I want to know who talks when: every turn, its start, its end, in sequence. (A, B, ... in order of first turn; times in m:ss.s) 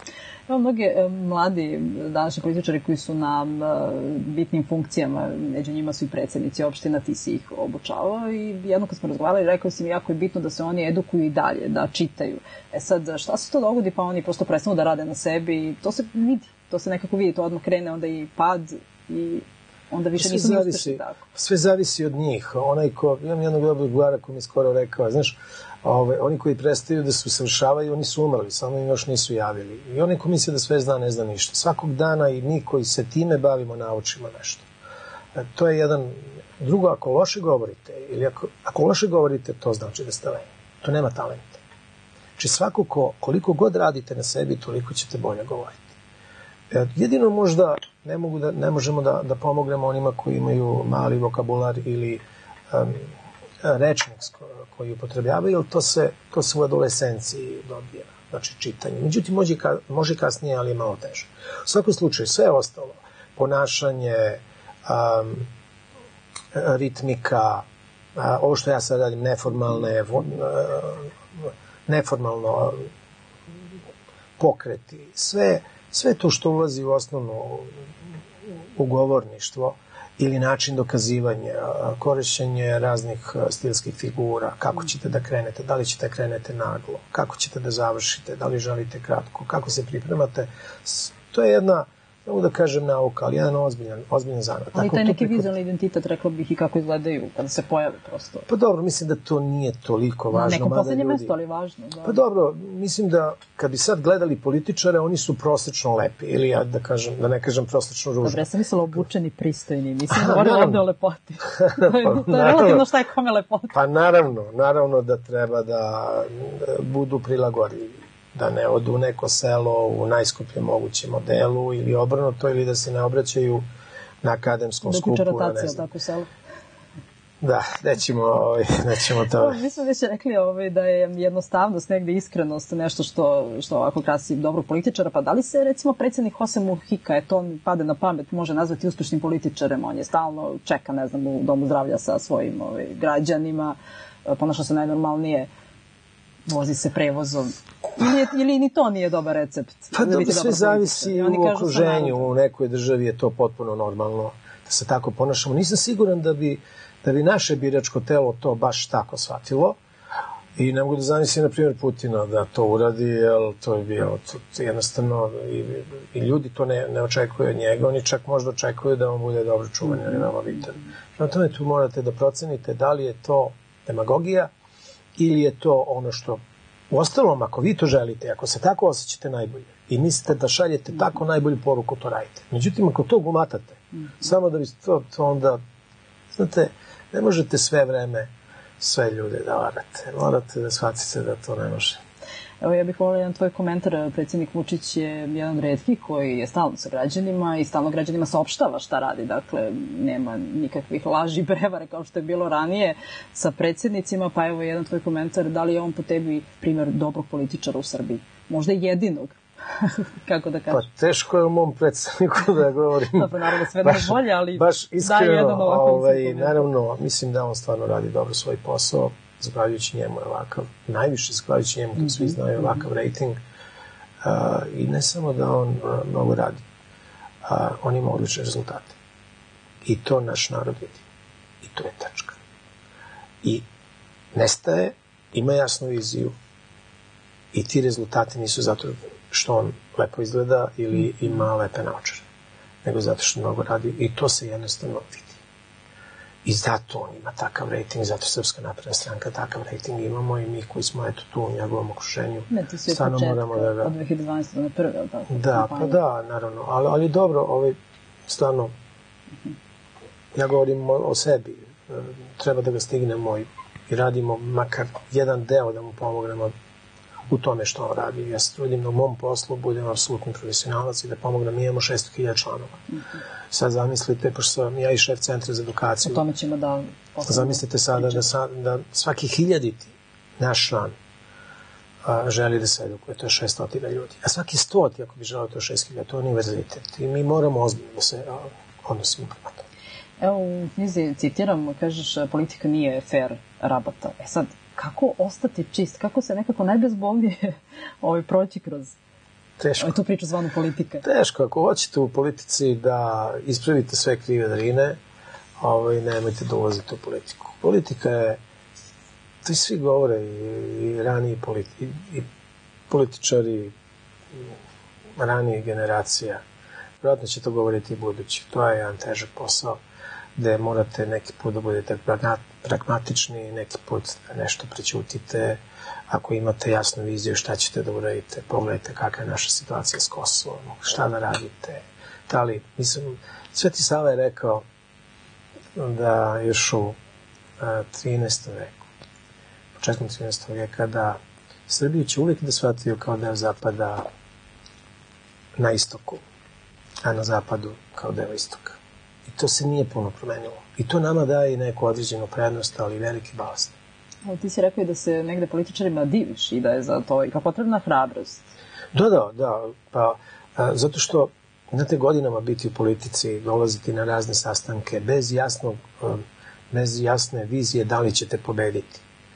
0:00.5-0:21.2 A
0:20.2-0:34.7 B
0:35.3-0:41.6 B
0:42.4-0:45.9 B
0:46.7-0:53.1 B
0:53.6-1:05.5 B
1:06.5-1:07.6 B
1:08.2-1:12.9 B
1:14.4-1:17.7 B
1:18.8-1:35.5 B
1:34.8-1:38.5 A
1:38.5-1:41.3 B
1:40.3-1:42.2 A
1:42.0-1:48.4 B
1:48.2-1:53.8 A
1:50.1-1:50.8 B
1:51.6-1:52.8 B
1:53.7-2:03.6 B
2:04.2-2:05.8 B
2:04.8-2:06.3 A
2:07.4-2:09.6 B
2:09.3-2:25.5 A
2:26.5-2:32.3 A
2:29.9-2:39.8 B
2:40.6-2:54.5 B
2:55.2-3:05.6 B
3:06.3-3:08.3 B
3:08.8-3:12.0 B
3:12.6-3:30.8 A
3:30.7-3:33.3 B
3:33.1-3:36.6 A
3:33.8-3:43.4 B
3:44.2-3:46.6 B
3:47.4-3:48.9 B
3:49.8-3:51.0 B
3:51.6-3:52.4 B
3:54.3-3:56.3 B
3:57.5-4:02.2 B
4:02.8-4:05.4 B
4:06.4-4:13.9 B
4:12.5-4:16.0 A
4:15.3-4:17.8 B
4:18.3-4:18.7 B
4:20.3-4:26.5 B
4:27.3-4:32.8 B
4:33.5-4:36.2 B
4:36.0-4:38.2 A
4:37.3-4:40.9 B
4:42.0-4:49.6 B
4:50.2-4:59.0 A
4:59.6-5:00.0 B
4:59.8-5:01.0 A
5:01.0-5:05.0 B
5:05.6-5:08.4 B
5:09.4-5:12.3 B
5:12.9-5:13.7 B
5:15.2-5:16.4 B
5:17.0-5:19.8 B
5:20.4-5:34.6 B
5:35.8-5:37.0 B
5:37.6-5:38.8 B
5:39.8-5:41.2 B
5:41.7-5:44.1 B
5:45.6-5:46.2 B
5:47.0-5:53.7 B
5:54.3-5:58.4 A
5:58.9-6:09.0 B